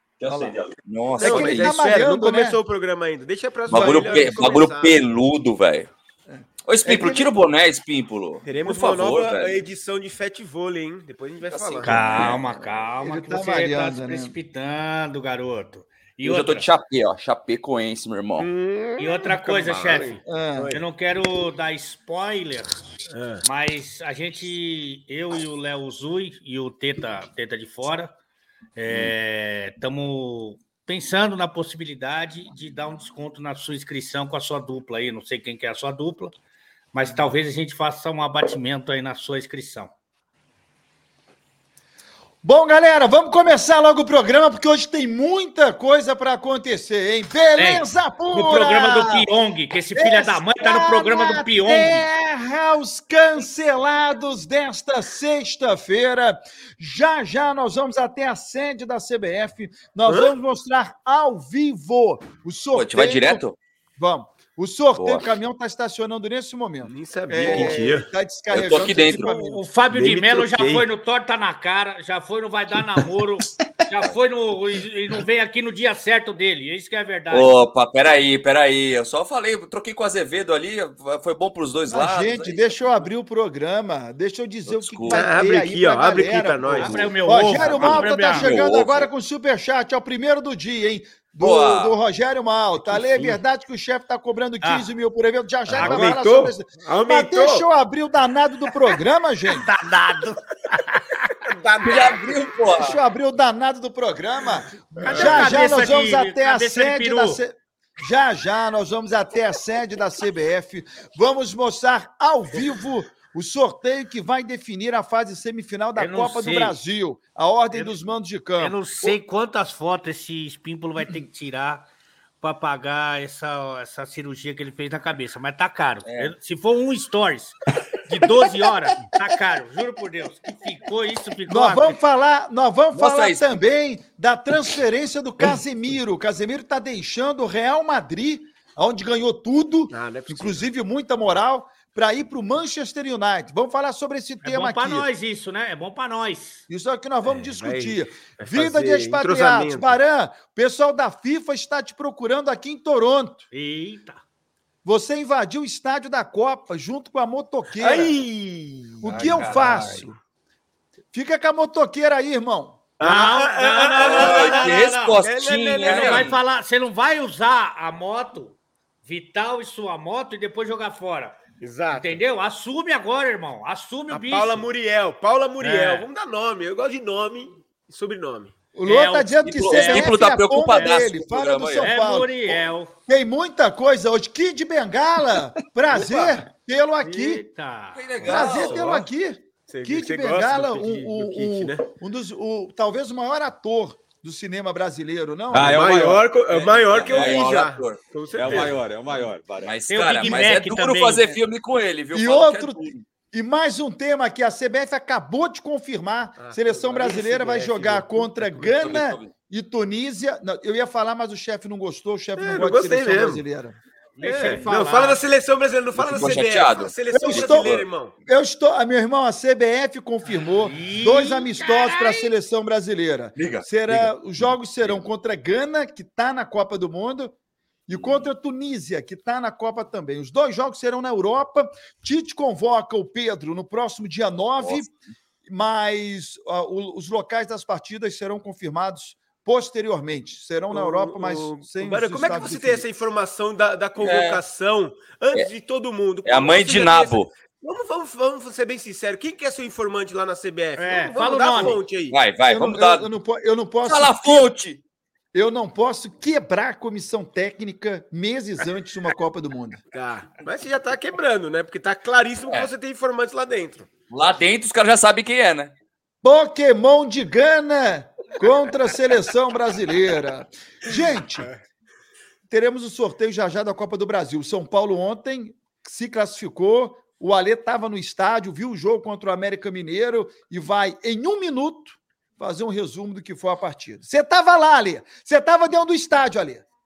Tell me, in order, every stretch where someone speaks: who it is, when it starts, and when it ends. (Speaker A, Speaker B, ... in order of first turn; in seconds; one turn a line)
Speaker A: 0.2-1.7
Speaker B: 0.2-0.5
Speaker C: 1.2-5.0
Speaker B: 1.2-2.6
Speaker A: 3.7-5.9
Speaker B: 3.7-4.4
Speaker B: 6.3-7.3
Speaker A: 6.7-9.6
Speaker C: 8.4-12.3
Speaker A: 11.4-12.4
Speaker D: 11.8-16.7
Speaker B: 13.0-14.3
Speaker A: 16.2-18.5
Speaker C: 18.4-20.8
Speaker D: 19.0-28.1
Speaker B: 20.2-20.7
Speaker C: 23.1-23.4
Speaker D: 28.8-36.3
Speaker D: 36.9-39.9
Speaker B: 42.4-49.3
Speaker D: 47.6-52.0
Speaker B: 49.9-63.4
Speaker C: 60.0-60.3
Speaker A: 62.7-63.6
Speaker B: 64.0-69.6
Speaker A: 65.0-65.3
Speaker C: 66.8-68.1
Speaker A: 67.3-67.8
Speaker A: 68.5-69.3
Speaker D: 69.2-77.6
Speaker C: 69.9-70.8
Speaker A: 77.3-83.0
Speaker B: 81.9-99.7
Speaker A: 84.7-85.3
Speaker C: 85.1-87.7
Speaker D: 86.8-88.5
Speaker A: 87.7-89.1
Speaker A: 91.4-92.0
Speaker C: 92.8-93.4
Speaker D: 94.6-94.9
Speaker C: 95.7-97.7
Speaker D: 95.8-96.1
Speaker D: 99.5-101.3
Speaker C: 101.5-102.5
Speaker A: 101.8-103.0
Speaker B: 102.8-119.2
Speaker C: 105.0-105.8
Speaker D: 105.0-107.4
Speaker D: 116.0-116.8
Speaker D: 118.6-121.9
Speaker D: 122.4-127.6
Speaker A: 126.0-126.3
Speaker D: 128.1-132.0
Speaker B: 131.5-145.1
Speaker A: 132.9-133.5
Speaker C: 139.9-140.6
Speaker D: 144.4-146.6
Speaker B: 146.7-153.5
Speaker C: 147.2-150.0
Speaker D: 153.5-154.2
Speaker B: 154.8-158.2
Speaker C: 157.8-159.8
Speaker B: 159.0-160.1
Speaker A: 159.0-160.1
Speaker B: 161.1-162.8
Speaker C: 163.0-166.4
Speaker D: 163.0-165.2
Speaker A: 164.0-166.3
Speaker D: 165.8-171.4
Speaker C: 171.6-172.2
Speaker D: 171.9-174.7
Speaker C: 174.1-178.5
Speaker D: 175.6-176.1
Speaker B: 178.7-182.5
Speaker D: 178.8-180.2
Speaker A: 179.4-181.9
Speaker D: 180.7-181.1
Speaker D: 181.8-182.9
Speaker B: 183.1-187.4
Speaker C: 186.0-186.2
Speaker D: 187.0-188.0
Speaker A: 187.9-188.9
Speaker C: 188.2-189.1
Speaker B: 188.2-195.8
Speaker C: 189.7-191.8
Speaker E: 195.5-197.3
Speaker C: 195.6-198.9
Speaker A: 196.6-198.7
Speaker E: 198.3-199.8
Speaker A: 199.6-203.0
Speaker D: 199.9-201.4
Speaker B: 202.1-213.8
Speaker C: 206.4-208.8
Speaker A: 208.7-209.3
Speaker C: 212.4-213.4
Speaker D: 214.2-215.2
Speaker C: 214.2-218.1
Speaker A: 215.9-217.8
Speaker B: 217.1-227.3
Speaker D: 220.3-222.3
Speaker A: 223.3-224.9
Speaker B: 227.9-234.9
Speaker A: 227.9-228.3
Speaker A: 234.6-234.9
Speaker B: 235.4-242.8
Speaker C: 240.7-252.2
Speaker A: 244.0-244.4
Speaker A: 246.2-247.3
Speaker D: 250.8-251.8
Speaker A: 252.1-253.1
Speaker B: 252.5-254.5
Speaker A: 253.8-254.8
Speaker B: 255.3-259.8
Speaker C: 259.9-263.9
Speaker A: 264.1-265.7
Speaker B: 266.2-271.5
Speaker B: 272.5-286.6